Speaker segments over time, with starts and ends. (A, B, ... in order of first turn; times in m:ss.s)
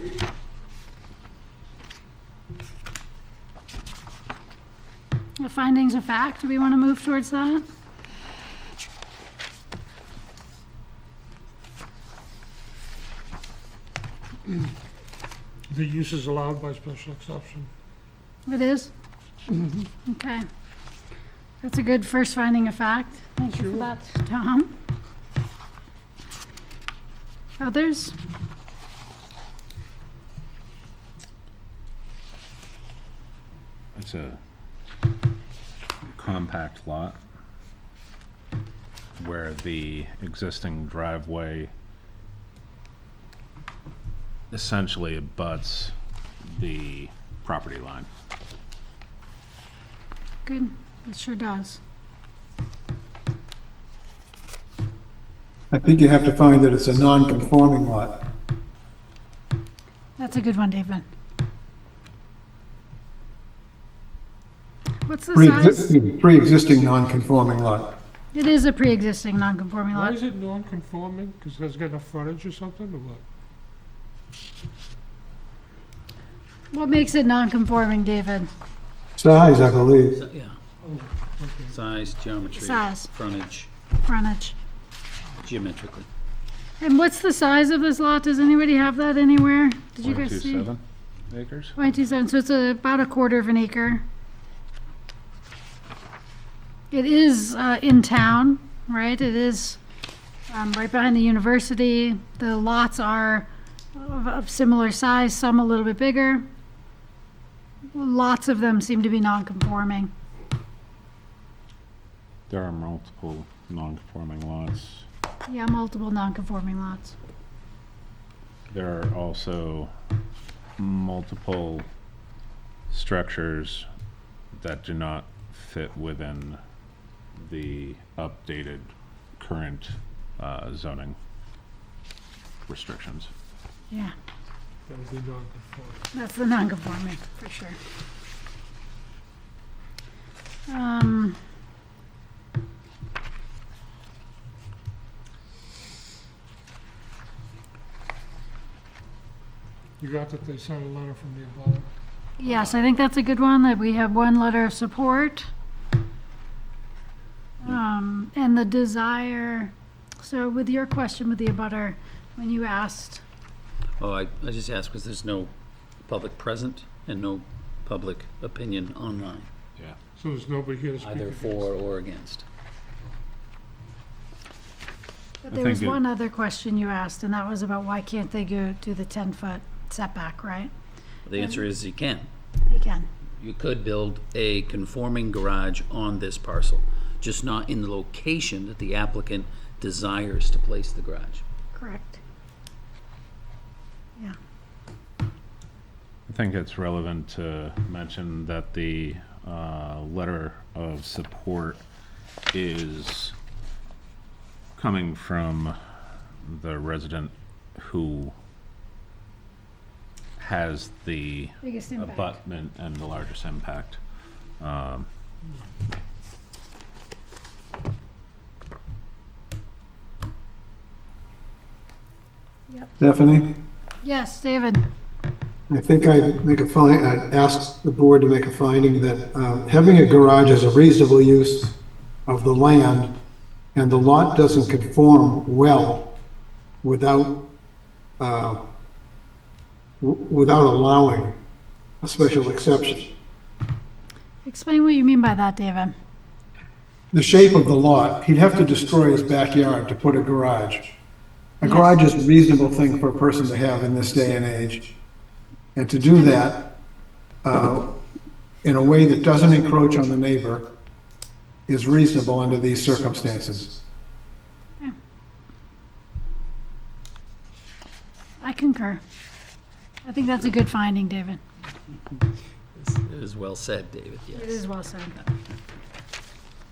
0:05.4-0:07.6 A
0:15.7-0:17.7 B
0:18.5-0:18.9 A
0:20.1-0:20.4 A
0:21.6-0:24.7 A
0:27.6-0:28.2 A
0:34.0-0:34.4 C
0:36.2-0:37.2 C
0:39.2-0:41.7 C
0:44.5-0:45.9 C
0:46.5-0:48.1 C
0:50.4-0:51.8 A
0:55.7-0:58.1 D
1:00.2-1:01.0 A
1:05.1-1:06.0 A
1:05.4-1:07.9 D
1:08.3-1:10.2 A
1:10.0-1:13.2 B
1:16.7-1:18.5 A
1:19.2-1:20.2 D
1:20.1-1:20.6 E
1:21.7-1:23.7 E
1:22.6-1:23.1 A
1:24.0-1:24.6 A
1:25.4-1:26.1 E
1:26.8-1:30.7 A
1:30.0-1:31.7 C
1:31.8-1:34.0 A
1:36.9-1:39.8 A
1:40.5-1:46.5 A
1:47.9-1:50.1 A
1:52.5-1:55.0 C
1:55.5-1:57.2 A
1:58.7-1:59.9 C
2:00.8-2:01.9 C
2:02.9-2:03.9 C
2:04.6-2:06.6 C
2:07.4-2:11.2 C
2:12.7-2:13.3 C
2:14.9-2:16.0 B
2:16.1-2:17.8 A
2:20.7-2:21.4 A
2:30.0-2:31.8 B
2:32.4-2:35.5 A
2:37.6-2:43.2 A
2:44.0-2:45.5 E
2:46.0-2:49.5 E
2:50.2-2:51.6 B
2:51.0-2:52.4 E
2:55.4-3:00.7 A
2:55.5-2:56.0 C
3:01.2-3:02.3 E
3:01.4-3:01.6 A
3:02.7-3:03.1 A
3:03.4-3:11.4 E
3:11.7-3:12.2 A
3:16.3-3:21.8 C
3:22.5-3:23.4 C
3:24.8-3:25.7 C
3:26.4-3:28.3 C
3:30.4-3:34.0 C
3:31.6-3:32.4 A
3:34.6-3:35.1 C
3:43.0-3:43.5 D
3:44.0-3:44.8 A
3:45.7-3:51.8 D
3:52.3-3:53.1 D
3:53.8-3:56.1 D
3:56.8-3:57.4 D
3:58.2-3:58.6 D
4:00.0-4:01.4 D
4:02.0-4:03.1 D
4:04.4-4:06.0 A
4:07.1-4:10.9 D
4:11.6-4:14.9 D
4:11.6-4:12.0 A
4:15.8-4:16.7 D
4:17.4-4:18.0 D
4:18.6-4:20.7 D
4:21.7-4:23.8 D
4:28.4-4:29.0 A
4:30.0-4:31.4 A
4:32.8-4:34.6 E
4:34.3-4:35.2 A